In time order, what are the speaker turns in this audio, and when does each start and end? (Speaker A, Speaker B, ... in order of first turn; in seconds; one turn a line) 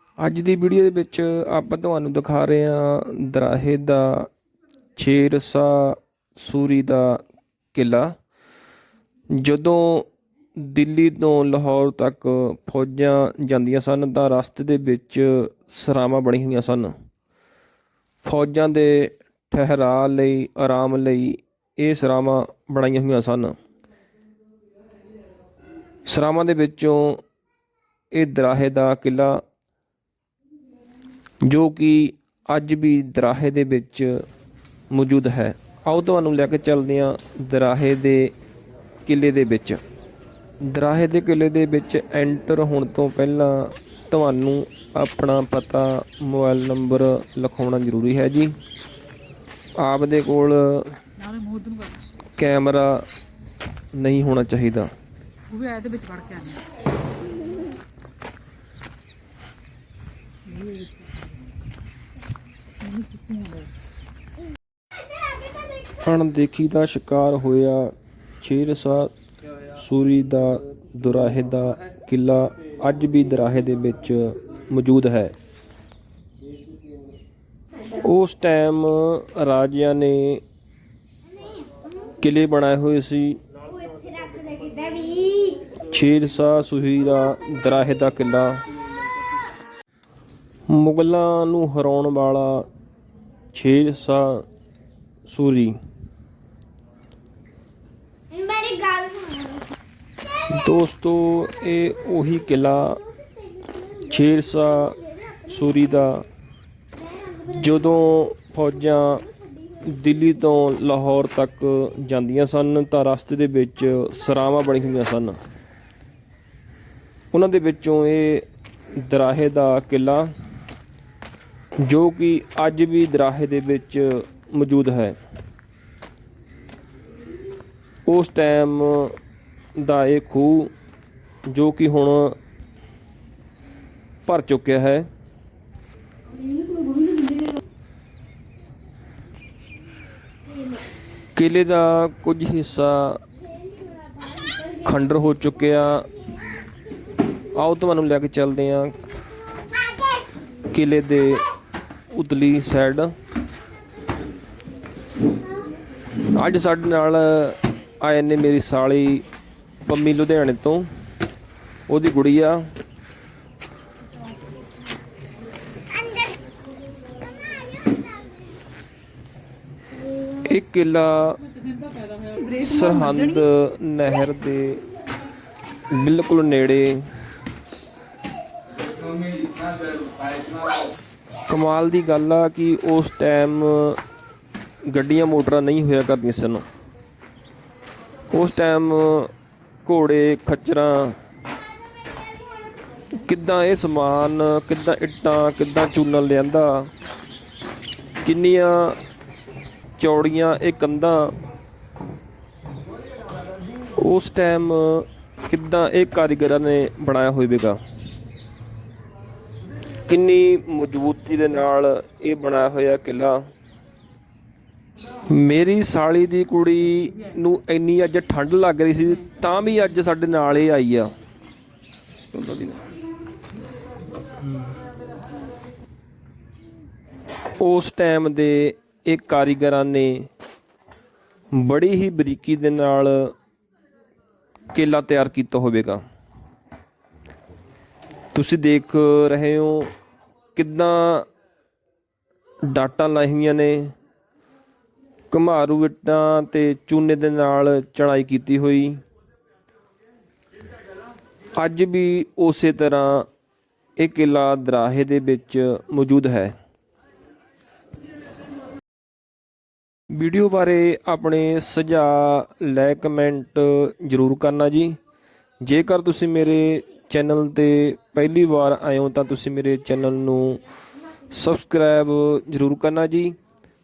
Speaker A: 0.2-4.3
Speaker A: 5.0-7.2
Speaker A: 7.7-8.1
Speaker A: 9.3-16.9
Speaker A: 18.2-23.5
Speaker A: 26.1-27.2
Speaker A: 28.1-29.4
Speaker A: 31.4-34.2
Speaker A: 34.9-38.3
Speaker A: 39.0-39.8
Speaker A: 40.6-48.5
Speaker A: 49.8-50.9
Speaker B: 51.2-51.9
Speaker A: 52.4-53.0
Speaker A: 53.9-54.9
Speaker B: 55.5-56.6
Speaker B: 60.5-61.1
Speaker B: 62.9-63.6
Speaker A: 66.0-69.1
Speaker A: 69.7-75.3
Speaker A: 77.9-80.4
Speaker A: 82.2-83.4
Speaker C: 83.7-85.6
Speaker A: 85.7-88.6
Speaker A: 90.7-92.7
Speaker A: 93.5-94.4
Speaker A: 95.2-95.8
Speaker C: 98.3-99.6
Speaker A: 100.5-103.0
Speaker A: 103.9-106.2
Speaker A: 107.4-109.3
Speaker A: 109.8-115.4
Speaker A: 117.3-118.5
Speaker A: 119.0-120.3
Speaker A: 121.8-125.2
Speaker A: 128.1-129.1
Speaker A: 129.8-130.7
Speaker A: 131.5-132.4
Speaker A: 134.2-135.1
Speaker C: 136.5-137.5
Speaker A: 141.3-143.2
Speaker A: 144.6-146.1
Speaker A: 147.5-149.0
Speaker A: 150.7-151.4
Speaker A: 152.1-153.1
Speaker A: 156.2-159.2
Speaker A: 159.8-160.9
Speaker A: 161.9-162.7
Speaker A: 170.4-171.4
Speaker C: 172.3-172.6
Speaker A: 172.5-174.8
Speaker A: 175.9-177.1
Speaker A: 181.5-184.0
Speaker A: 184.9-186.6
Speaker A: 188.3-189.3
Speaker A: 189.8-191.2
Speaker A: 193.1-196.9
Speaker A: 198.2-199.0
Speaker A: 200.0-201.3
Speaker A: 203.9-207.8
Speaker A: 210.1-213.4
Speaker A: 215.3-221.1
Speaker A: 222.3-222.8
Speaker A: 227.6-230.3
Speaker A: 231.5-233.3
Speaker A: 234.7-236.0
Speaker A: 238.3-239.9
Speaker A: 240.6-241.3
Speaker A: 242.6-243.9
Speaker A: 245.3-249.0
Speaker A: 251.5-253.3
Speaker A: 254.0-256.5
Speaker A: 260.1-265.0
Speaker A: 265.6-270.6
Speaker A: 271.3-273.4